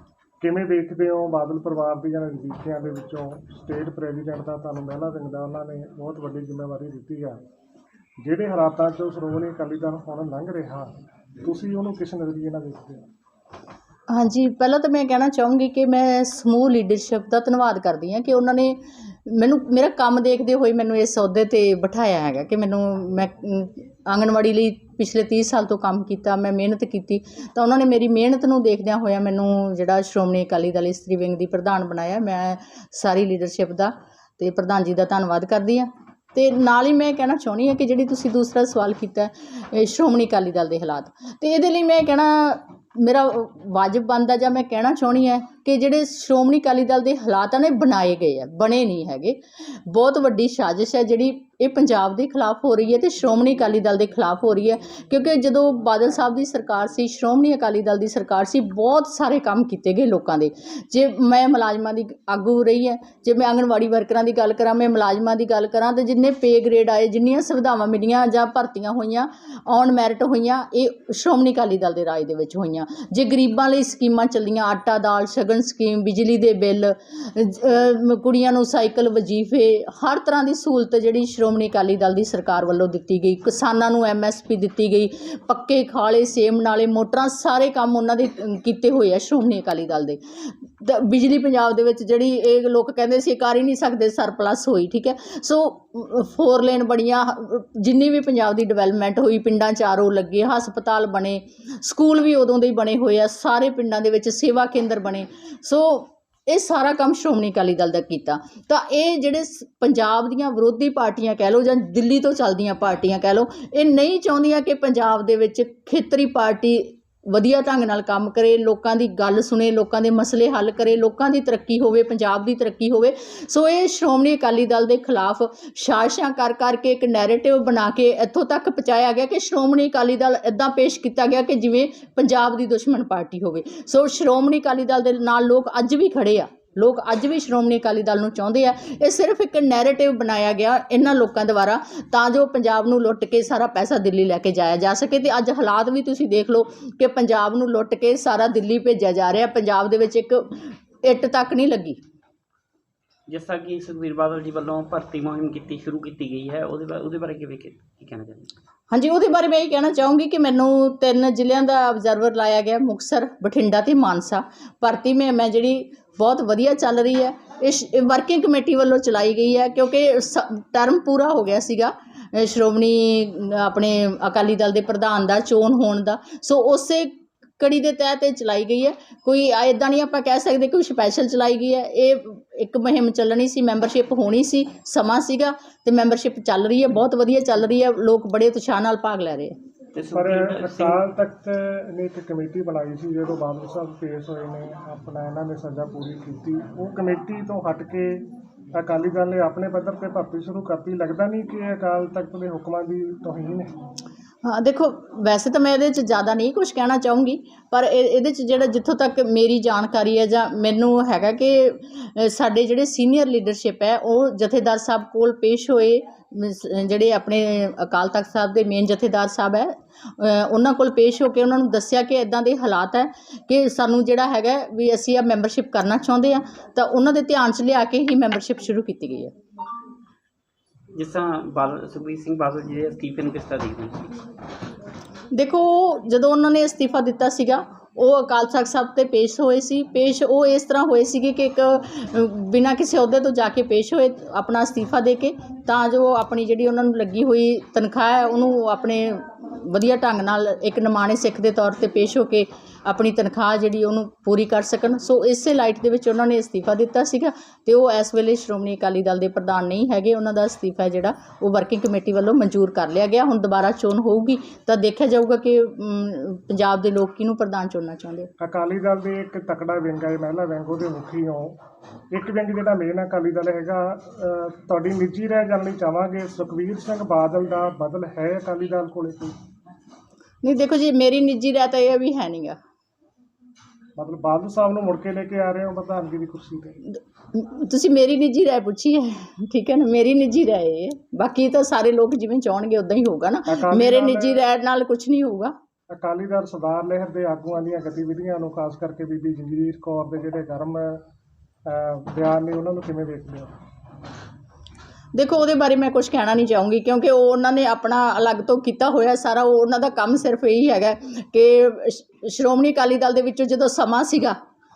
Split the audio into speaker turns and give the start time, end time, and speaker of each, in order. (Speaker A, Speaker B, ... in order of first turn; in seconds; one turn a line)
Speaker A: 0.4-7.4
Speaker A: 8.2-13.1
Speaker B: 14.1-152.0
Speaker C: 153.3-158.5
Speaker B: 158.9-189.5
Speaker C: 189.9-191.0
Speaker A: 190.1-203.8
Speaker B: 204.4-229.3
Speaker C: 230.9-234.2
Speaker B: 235.3-268.3
Speaker A: 268.4-271.6
Speaker A: 272.1-279.4
Speaker B: 280.4-282.6
Speaker A: 284.0-286.8
Speaker B: 286.9-295.5
Speaker A: 293.5-294.5
Speaker A: 295.9-301.0
Speaker A: 301.7-303.5
Speaker B: 305.1-314.4